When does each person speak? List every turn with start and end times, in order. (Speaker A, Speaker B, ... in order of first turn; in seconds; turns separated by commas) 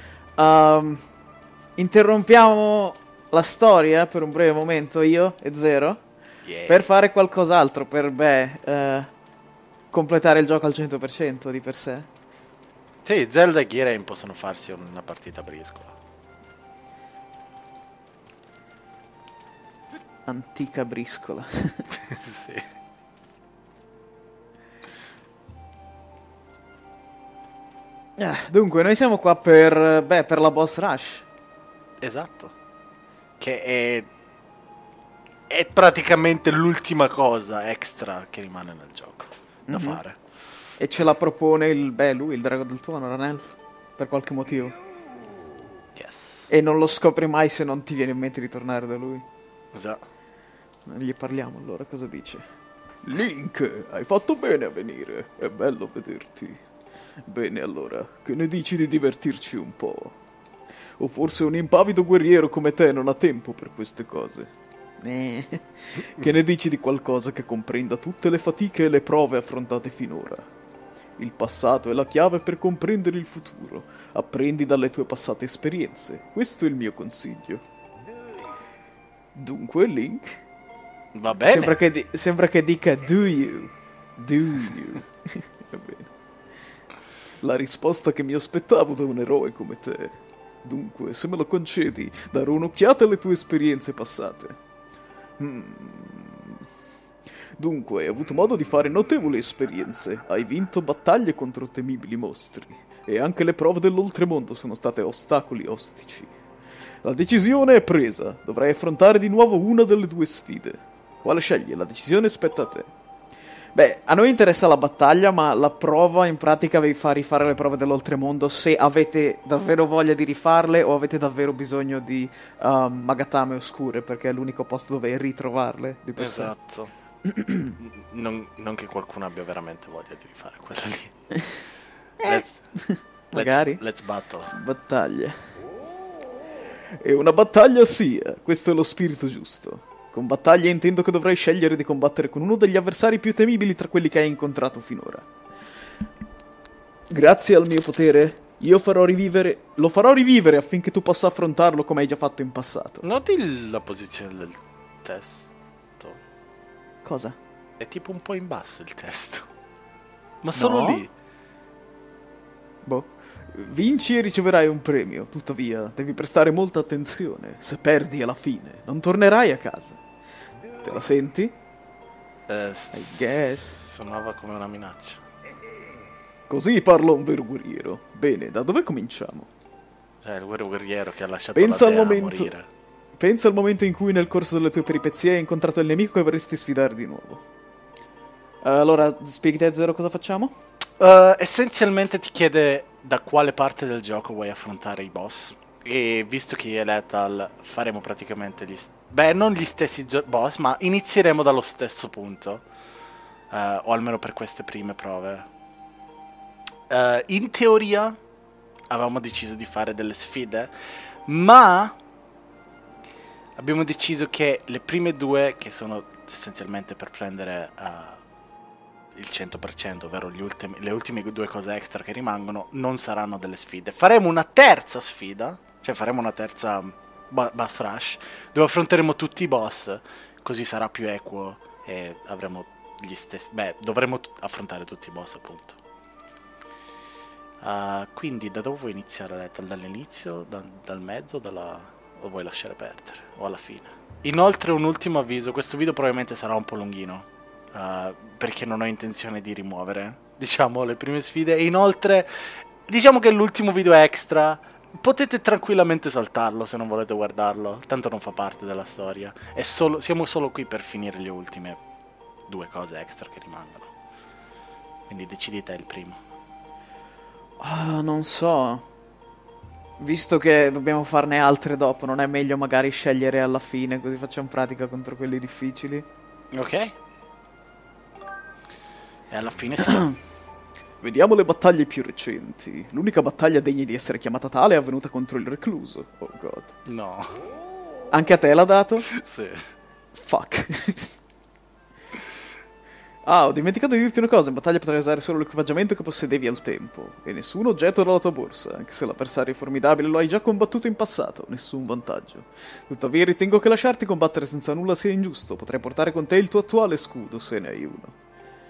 Speaker A: 0.4-1.0, Speaker A: 1.8-6.0, Speaker B: 6.4-6.8, Speaker A: 6.7-9.1, Speaker A: 9.9-12.1, Speaker B: 13.0-16.0, Speaker A: 20.3-21.9, Speaker B: 22.0-22.7, Speaker A: 28.2-31.3, Speaker B: 32.0-32.5, Speaker B: 33.4-34.1, Speaker B: 35.5-40.2, Speaker A: 39.7-40.0, Speaker A: 40.8-44.8, Speaker B: 46.0-46.5, Speaker A: 46.5-49.2, Speaker B: 49.7-50.0, Speaker A: 50.9-52.5, Speaker A: 53.0-56.6, Speaker A: 57.3-60.1, Speaker A: 61.0-64.5, Speaker A: 65.0-70.5, Speaker A: 71.2-77.6, Speaker A: 79.3-80.4, Speaker B: 81.1-81.8, Speaker A: 81.4-86.1, Speaker A: 87.4-94.6, Speaker A: 95.4-96.6, Speaker A: 97.6-106.3, Speaker A: 107.0-112.9, Speaker A: 113.8-126.5, Speaker B: 126.2-126.9, Speaker A: 127.2-127.8, Speaker B: 127.8-131.1, Speaker A: 132.2-133.8, Speaker B: 132.2-132.6, Speaker B: 133.3-134.5, Speaker A: 134.5-135.5, Speaker A: 136.9-145.3, Speaker A: 147.1-153.1, Speaker B: 153.0-156.2, Speaker A: 157.1-157.4, Speaker B: 157.8-159.5, Speaker B: 160.4-161.1, Speaker A: 160.6-161.1, Speaker A: 162.8-170.0, Speaker A: 170.8-171.6, Speaker B: 172.5-175.2, Speaker A: 172.9-173.8, Speaker A: 176.5-179.5, Speaker B: 180.2-182.7, Speaker A: 181.6-182.5, Speaker A: 183.2-187.4, Speaker A: 188.6-190.5, Speaker B: 191.0-202.6, Speaker B: 203.5-205.5, Speaker B: 206.9-208.2, Speaker B: 208.9-211.9, Speaker B: 213.6-218.2, Speaker B: 219.1-235.8, Speaker B: 237.6-261.8, Speaker B: 262.5-263.9, Speaker B: 265.1-266.2, Speaker A: 267.6-268.9, Speaker A: 270.0-276.1, Speaker B: 276.5-276.9, Speaker B: 279.3-280.1, Speaker A: 279.9-280.2, Speaker A: 281.0-286.7, Speaker B: 286.9-287.4, Speaker A: 288.1-289.1, Speaker B: 289.1-289.7, Speaker A: 290.1-291.2, Speaker A: 293.3-308.1